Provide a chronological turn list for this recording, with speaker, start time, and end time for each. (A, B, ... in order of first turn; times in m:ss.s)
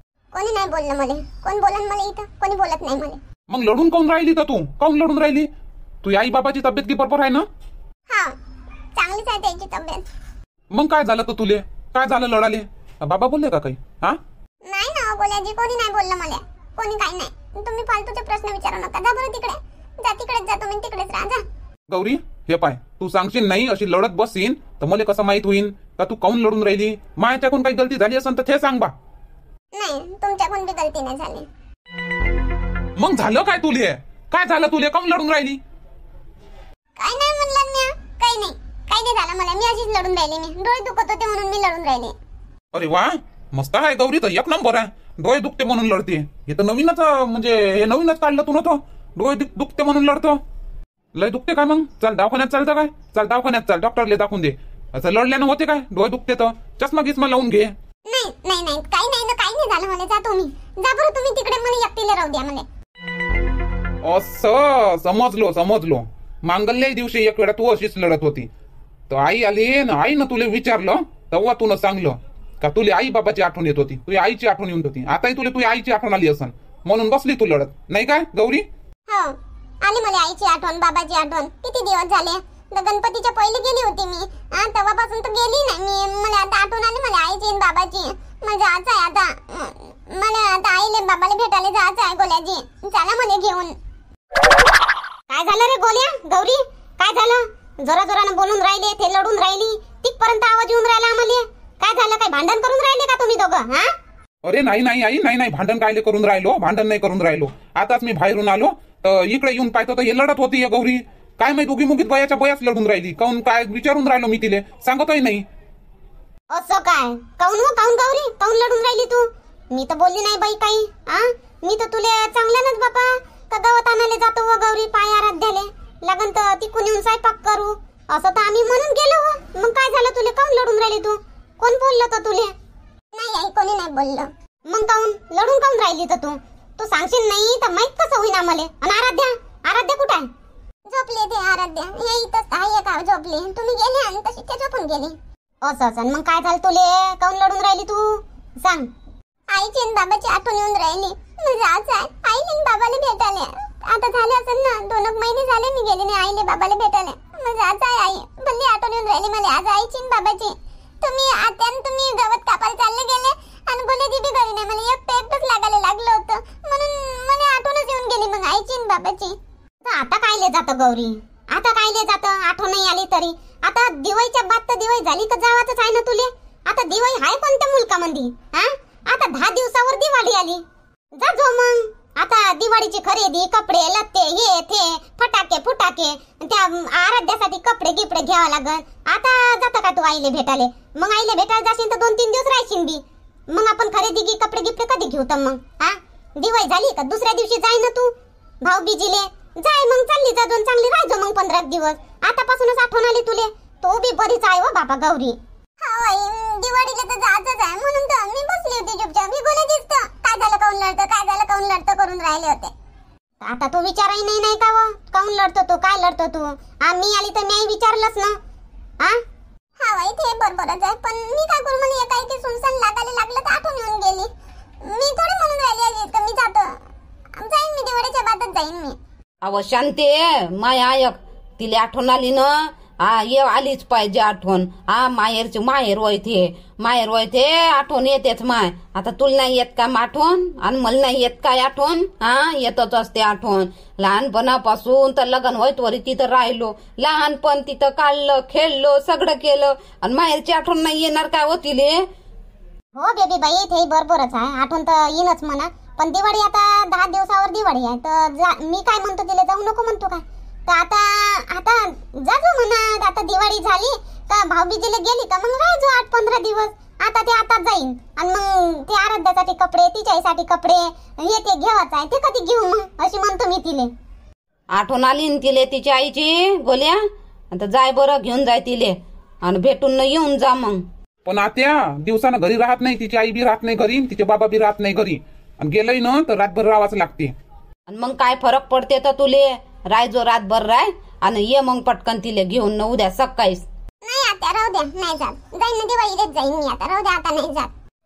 0:00.3-0:03.2 A
0:03.5-0:05.5 B
0:06.0-0:07.4 B
0:08.1-0:08.3 A
0:09.0-0:10.0 A
0:10.7-0:14.2 B
0:14.7-0:21.4 A
0:21.9-0:28.9 B
0:29.7-0:31.5 A
0:33.0-0:35.6 B
0:37.0-0:42.2 A
0:42.7-0:50.4 B
0:51.1-0:57.8 B
0:58.1-1:02.7 A
1:04.0-1:08.5 B
1:09.1-1:18.6 B
1:19.1-1:33.8 A
1:35.3-1:43.9 A
1:44.4-1:55.4 B
1:56.5-2:12.5 A
2:13.1-2:20.3 A
2:20.9-2:28.9 A
2:29.5-3:00.6 A
3:01.2-3:13.0 A
3:13.5-3:18.1 A
3:18.6-3:32.7 A
3:33.4-3:38.4 A
3:39.8-3:44.3 A
3:44.8-3:46.7 A
3:47.4-3:49.0 A
3:49.4-4:12.0 C
4:13.0-4:33.9 A
4:34.7-4:37.0 C
4:37.5-4:40.8 C
4:41.2-4:47.3 B
4:47.9-4:53.7 C
4:54.0-4:57.7 A